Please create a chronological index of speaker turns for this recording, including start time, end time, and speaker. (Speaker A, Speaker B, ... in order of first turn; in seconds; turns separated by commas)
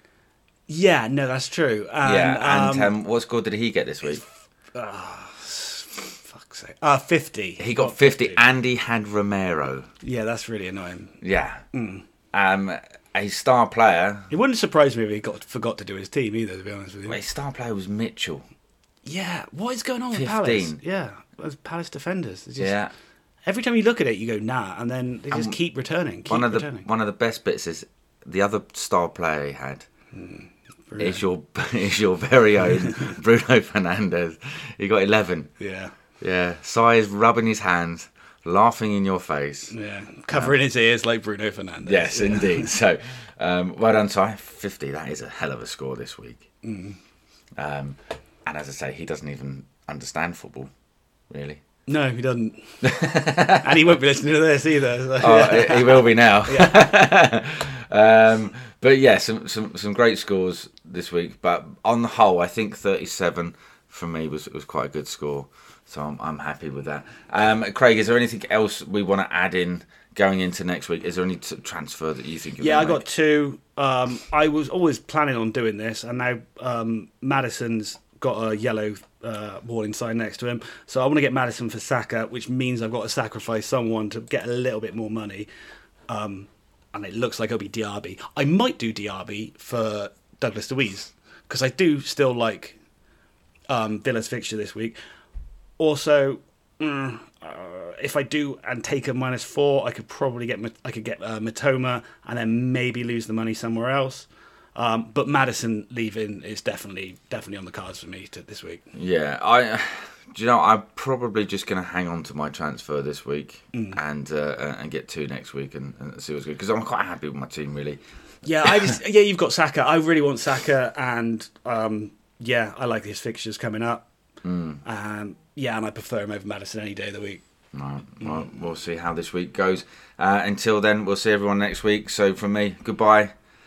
Speaker A: 0.7-2.9, Speaker B: 2.0-4.2, Speaker A: 4.7-8.4, Speaker B: 7.6-9.9, Speaker A: 10.0-11.2, Speaker B: 11.2-11.6, Speaker A: 11.7-12.1, Speaker B: 12.3-14.3, Speaker A: 14.3-17.2, Speaker B: 17.1-18.4, Speaker A: 19.1-22.8, Speaker B: 20.1-20.8, Speaker B: 22.6-22.9, Speaker A: 23.5-26.9, Speaker B: 25.3-25.6, Speaker B: 26.3-29.9, Speaker A: 30.1-31.2, Speaker B: 31.0-35.5, Speaker A: 32.8-33.1, Speaker A: 35.6-35.9, Speaker B: 36.2-39.7, Speaker A: 39.7-42.7, Speaker B: 41.9-46.5, Speaker A: 46.6-47.0, Speaker B: 47.6-50.7, Speaker B: 51.3-51.6, Speaker A: 51.9-52.9, Speaker B: 52.8-53.7, Speaker A: 53.5-56.8, Speaker B: 55.2-73.0, Speaker A: 72.6-85.5, Speaker A: 86.1-92.8, Speaker A: 93.7-95.0, Speaker A: 95.8-108.9, Speaker B: 108.9-118.0, Speaker A: 113.7-114.0, Speaker A: 118.4-124.1, Speaker B: 118.7-119.0, Speaker B: 124.4-124.8, Speaker A: 124.8-127.4, Speaker B: 127.7-133.3